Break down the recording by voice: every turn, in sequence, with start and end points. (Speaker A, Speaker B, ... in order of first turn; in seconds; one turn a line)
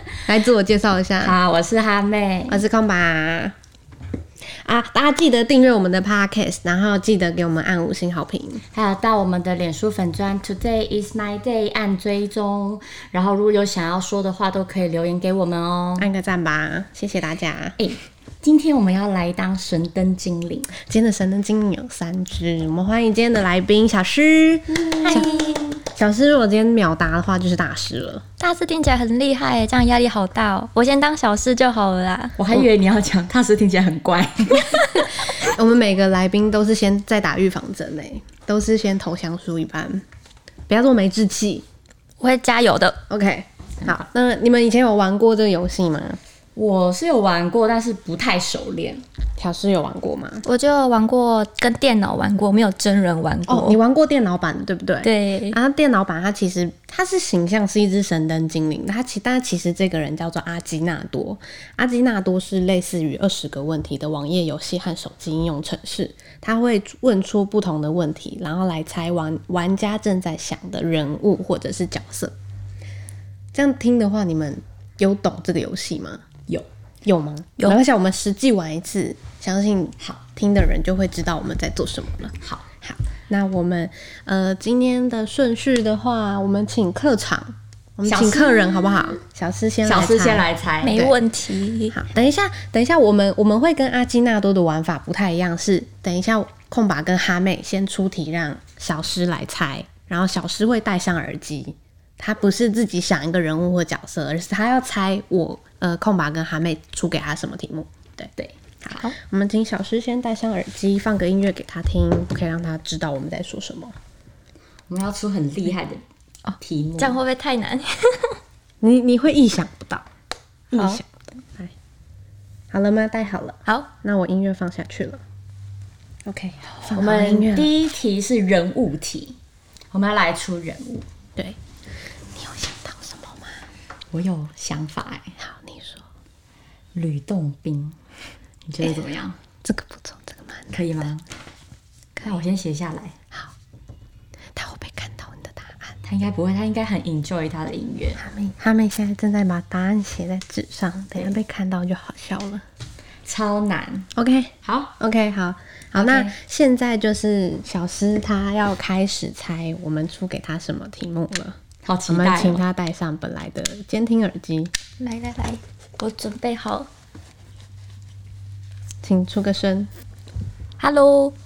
Speaker A: 0.3-1.4
Speaker B: 1.2-2.6
Speaker A: 2.5-3.5
Speaker A: 4.6-8.6
Speaker B: 8.7-16.1
Speaker A: 16.0-17.8
Speaker B: 17.8-20.7
Speaker A: 20.8-28.2
Speaker B: 25.0-25.3
Speaker C: 28.4-32.4
Speaker B: 32.4-34.9
Speaker C: 34.8-35.0
Speaker A: 35.4-40.0
Speaker A: 40.7-41.6
Speaker C: 42.2-43.0
Speaker A: 43.1-46.2
Speaker B: 46.6-49.0
Speaker A: 49.4-50.4
Speaker C: 50.5-53.8
Speaker A: 53.5-72.3
Speaker C: 55.0-55.6
Speaker A: 73.5-76.2
Speaker A: 77.0-91.2
Speaker B: 88.1-89.1
Speaker B: 89.8-91.0
Speaker C: 90.8-92.0
Speaker A: 91.9-108.3
Speaker A: 108.8-114.0
Speaker B: 114.9-116.0
Speaker B: 116.6-117.2
Speaker C: 117.0-118.4
Speaker A: 118.8-120.1
Speaker A: 120.7-121.7
Speaker C: 120.7-121.0
Speaker A: 122.7-125.2
Speaker A: 126.3-127.7
Speaker B: 126.9-129.4
Speaker B: 129.9-131.1
Speaker A: 132.3-133.6
Speaker B: 134.1-135.3
Speaker A: 135.4-136.1
Speaker B: 136.9-138.0
Speaker B: 138.7-139.4
Speaker A: 139.6-140.7
Speaker B: 140.7-141.2
Speaker B: 142.2-143.2
Speaker A: 144.6-145.9
Speaker B: 146.1-148.2
Speaker A: 148.2-152.6
Speaker B: 153.3-154.1
Speaker A: 154.2-161.6
Speaker B: 154.7-154.9
Speaker B: 156.0-156.3
Speaker B: 161.8-162.6
Speaker A: 162.1-164.7
Speaker C: 165.0-166.9
Speaker A: 169.0-169.9
Speaker C: 170.8-171.3